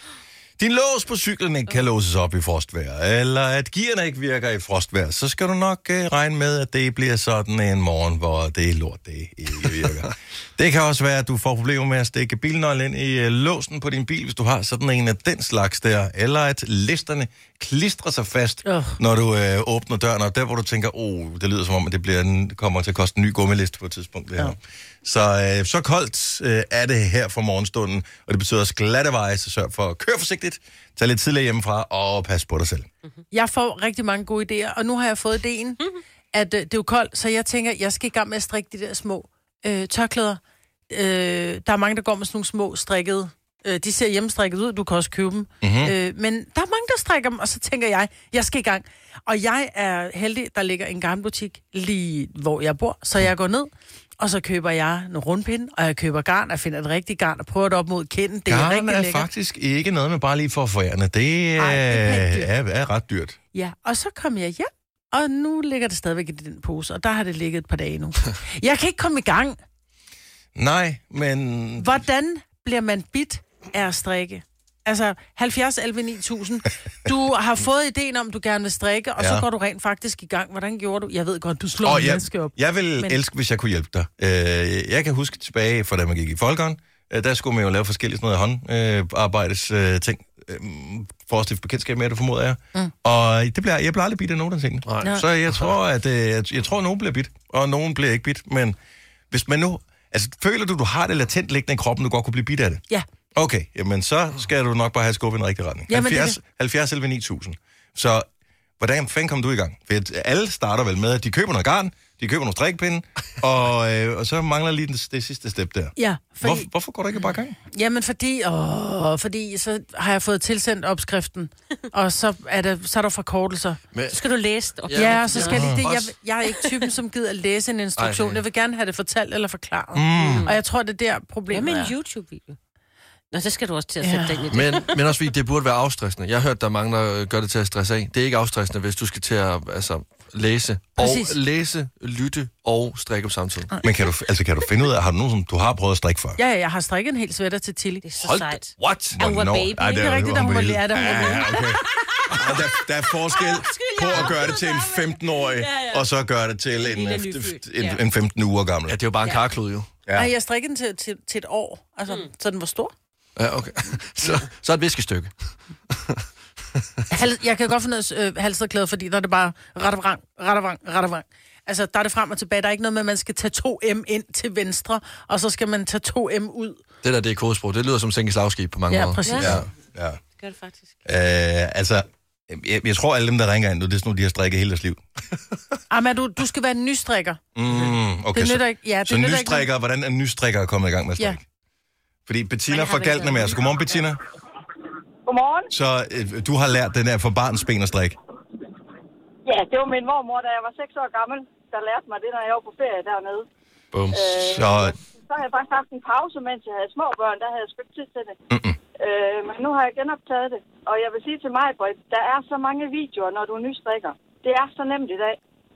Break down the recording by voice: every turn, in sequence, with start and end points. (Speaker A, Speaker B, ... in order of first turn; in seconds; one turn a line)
Speaker A: 0.6-32.9
Speaker B: 18.6-19.0
Speaker B: 33.3-35.8
Speaker B: 36.3-59.3
Speaker A: 45.6-45.9
Speaker A: 58.5-63.4
Speaker B: 61.6-62.5
Speaker B: 63.5-69.6
Speaker A: 70.5-71.9
Speaker B: 71.8-83.2
Speaker A: 79.2-79.5
Speaker A: 81.8-98.8
Speaker C: 94.9-95.7
Speaker A: 99.3-102.8
Speaker A: 103.3-108.3
Speaker B: 105.9-106.4
Speaker A: 108.8-117.6
Speaker B: 116.0-116.7
Speaker B: 117.7-123.8
Speaker C: 123.9-124.2
Speaker D: 124.1-125.7
Speaker C: 124.9-125.8
Speaker B: 125.0-131.9
Speaker A: 125.5-126.1
Speaker C: 128.0-128.4
Speaker A: 129.9-130.5
Speaker D: 130.2-130.6
Speaker D: 131.5-132.6
Speaker D: 133.3-135.0
Speaker B: 134.0-134.5
Speaker C: 134.5-143.7
Speaker B: 141.0-141.4
Speaker A: 143.8-146.4
Speaker B: 146.4-148.0
Speaker D: 148.0-150.2
Speaker C: 148.2-149.2
Speaker A: 149.2-159.0
Speaker B: 149.9-151.7
Speaker D: 151.9-156.1
Speaker D: 156.8-158.0
Speaker C: 158.9-159.9
Speaker A: 160.1-160.3
Speaker B: 160.1-162.9
Speaker C: 163.4-165.3
Speaker C: 165.9-166.2
Speaker B: 167.1-176.8
Speaker C: 177.0-179.2
Speaker B: 178.9-179.6
Speaker D: 179.2-179.6
Speaker A: 179.4-180.2
Speaker D: 180.4-181.0
Speaker A: 181.1-185.0
Speaker B: 185.9-187.4
Speaker A: 187.6-191.4
Speaker B: 188.3-189.7
Speaker A: 192.3-194.2
Speaker B: 192.8-193.5
Speaker E: 195.3-195.7
Speaker A: 195.7-198.2
Speaker E: 199.4-203.5
Speaker C: 203.9-204.2
Speaker E: 204.1-208.4
Speaker A: 204.3-204.9
Speaker A: 208.5-208.8
Speaker E: 209.0-215.4